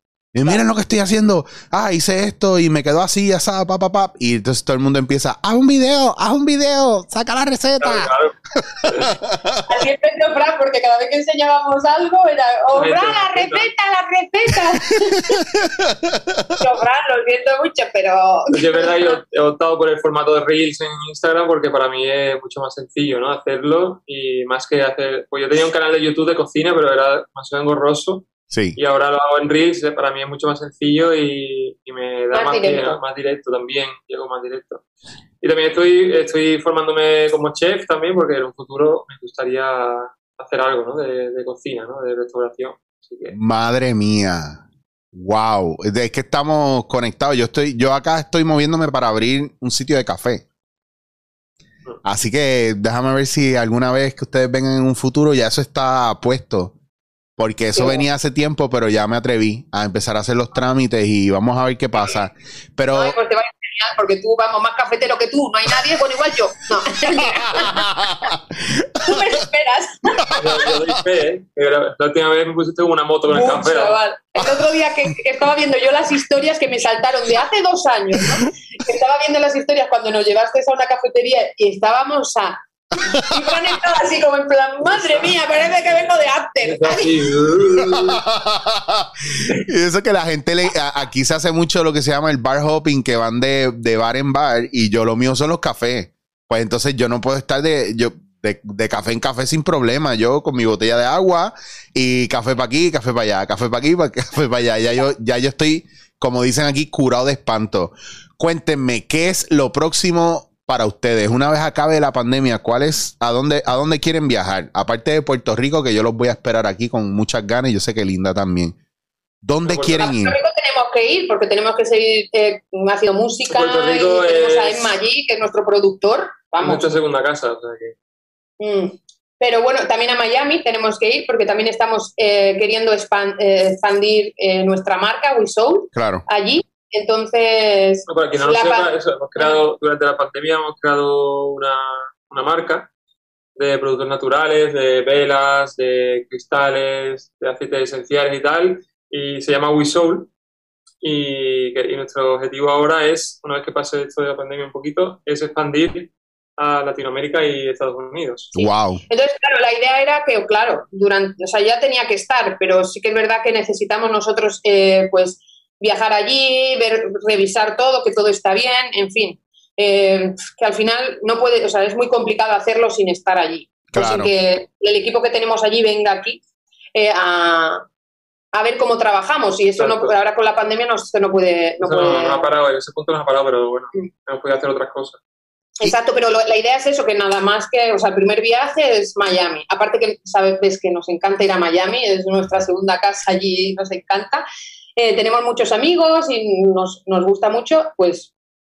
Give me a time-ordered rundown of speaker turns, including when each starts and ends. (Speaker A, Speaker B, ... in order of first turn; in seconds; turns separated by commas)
Speaker A: 0.3-9.7, Speaker B: 7.8-8.3, Speaker B: 8.9-9.2, Speaker C: 9.7-15.4, Speaker B: 12.7-13.7, Speaker A: 15.1-16.6, Speaker C: 16.6-19.2, Speaker B: 18.5-34.8, Speaker A: 28.5-28.8, Speaker C: 32.3-33.0, Speaker B: 35.4-43.4, Speaker A: 43.3-44.6, Speaker A: 45.1-50.4, Speaker A: 52.0-56.7, Speaker A: 57.4-63.1, Speaker C: 57.7-58.0, Speaker C: 62.9-67.9, Speaker A: 67.1-69.4, Speaker C: 69.0-70.3, Speaker A: 70.2-71.0, Speaker B: 70.3-74.0, Speaker C: 73.3-87.2, Speaker A: 78.1-78.4, Speaker A: 83.1-83.6, Speaker B: 84.9-85.3, Speaker B: 86.6-88.2, Speaker A: 87.8-118.8, Speaker A: 119.4-120.4, Speaker B: 119.7-120.0, Speaker C: 120.0-126.8, Speaker B: 123.5-124.9, Speaker B: 126.6-127.9, Speaker C: 128.6-139.6, Speaker A: 135.9-136.2, Speaker B: 138.1-142.9, Speaker B: 143.6-150.3, Speaker B: 151.0-158.5, Speaker C: 158.5-176.4, Speaker A: 158.6-159.0, Speaker A: 173.9-174.3, Speaker C: 176.9-177.8, Speaker C: 178.5-182.5, Speaker B: 179.8-180.1, Speaker B: 181.8-185.2, Speaker C: 185.8-194.4, Speaker C: 194.9-198.3